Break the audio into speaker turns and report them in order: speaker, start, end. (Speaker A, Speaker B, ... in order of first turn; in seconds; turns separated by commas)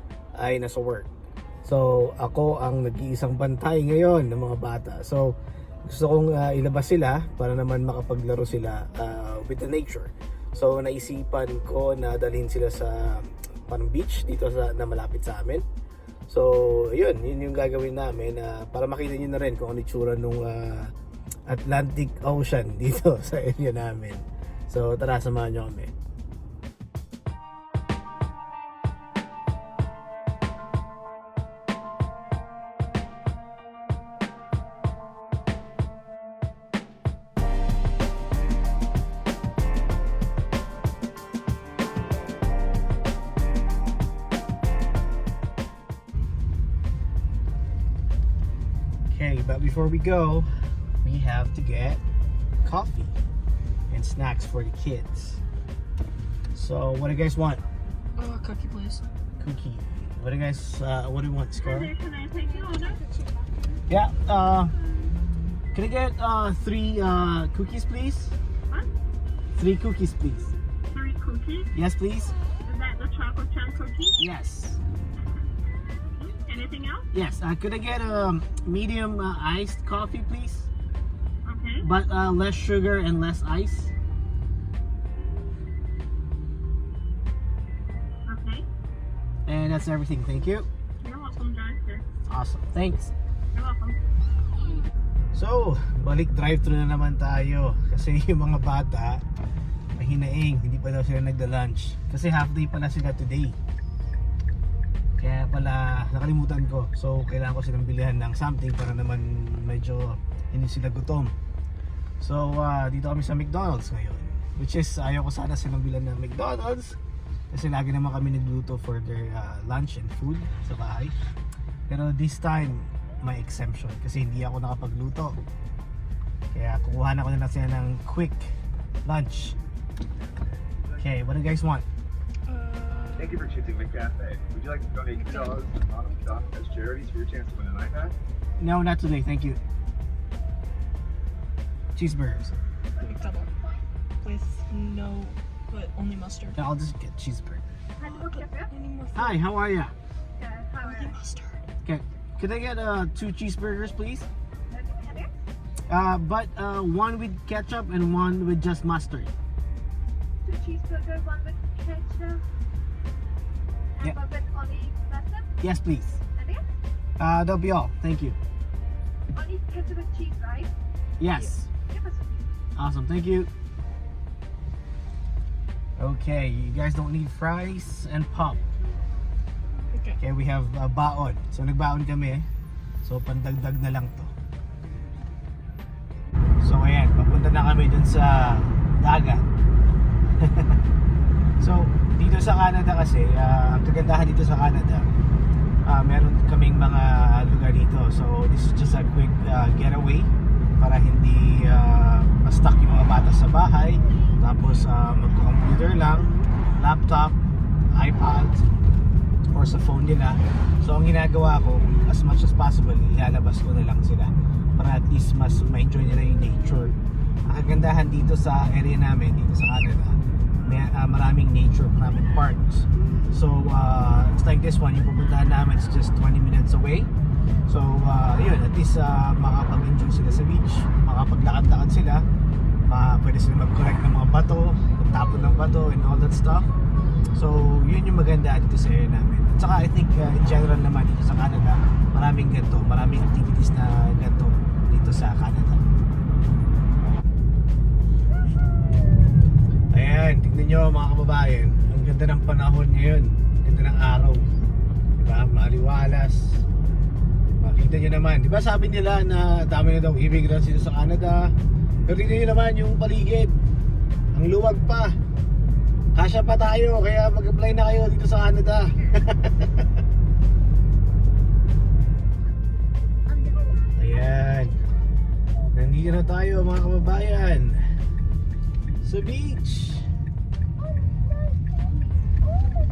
Speaker A: 0.3-1.1, Speaker A: 1.6-5.3, Speaker A: 5.8-15.6, Speaker A: 16.3-20.9, Speaker A: 21.5-25.9, Speaker A: 49.1-50.5, Speaker A: 51.0-52.0, Speaker A: 52.6-53.2, Speaker A: 53.9-55.4, Speaker A: 56.5-57.6, Speaker B: 58.1-59.1, Speaker A: 59.4-61.9, Speaker C: 61.6-63.0, Speaker A: 63.9-64.7, Speaker A: 65.7-68.3, Speaker A: 69.5-70.5, Speaker C: 70.9-71.7, Speaker A: 71.7-72.3, Speaker C: 72.6-74.2, Speaker A: 74.2-74.8, Speaker C: 76.2-77.1, Speaker A: 77.1-80.7, Speaker C: 81.4-81.8, Speaker A: 81.8-83.9, Speaker C: 88.3-88.7, Speaker A: 89.5-90.7, Speaker C: 91.0-92.0, Speaker A: 92.3-93.1, Speaker C: 93.5-94.0, Speaker A: 95.3-99.2, Speaker A: 99.9-103.6, Speaker A: 105.2-111.3, Speaker A: 112.2-117.0, Speaker A: 117.5-121.1, Speaker A: 121.9-125.4, Speaker A: 126.5-128.5, Speaker A: 129.1-129.5, Speaker A: 131.0-131.8, Speaker B: 132.5-133.3, Speaker D: 133.2-138.1, Speaker A: 138.6-139.6, Speaker A: 141.9-142.5, Speaker B: 143.0-143.5, Speaker B: 144.2-146.6, Speaker A: 146.6-147.7, Speaker E: 148.0-148.7, Speaker B: 148.1-149.3, Speaker A: 149.1-149.9, Speaker E: 150.4-151.2, Speaker B: 150.8-151.6, Speaker A: 151.8-154.3, Speaker E: 154.7-155.3, Speaker A: 155.9-159.3, Speaker E: 160.4-162.4, Speaker E: 164.0-165.5, Speaker A: 165.6-166.2, Speaker E: 166.3-166.7, Speaker A: 167.2-168.4, Speaker E: 169.3-170.7, Speaker A: 171.2-171.7, Speaker E: 171.9-172.5, Speaker A: 172.8-173.5, Speaker A: 176.0-178.6, Speaker A: 180.2-182.5, Speaker A: 183.0-184.3, Speaker A: 186.6-189.5, Speaker A: 190.4-190.8, Speaker A: 191.6-195.1, Speaker A: 195.8-207.4, Speaker A: 207.9-208.7, Speaker A: 209.5-227.1, Speaker A: 227.7-232.2, Speaker A: 232.9-236.7, Speaker A: 237.3-245.9, Speaker A: 249.9-254.4, Speaker A: 255.2-256.6, Speaker A: 257.6-261.5, Speaker A: 262.1-263.5, Speaker A: 264.3-265.1, Speaker A: 266.1-269.8, Speaker A: 274.0-274.8, Speaker A: 275.7-277.8, Speaker A: 279.0-280.1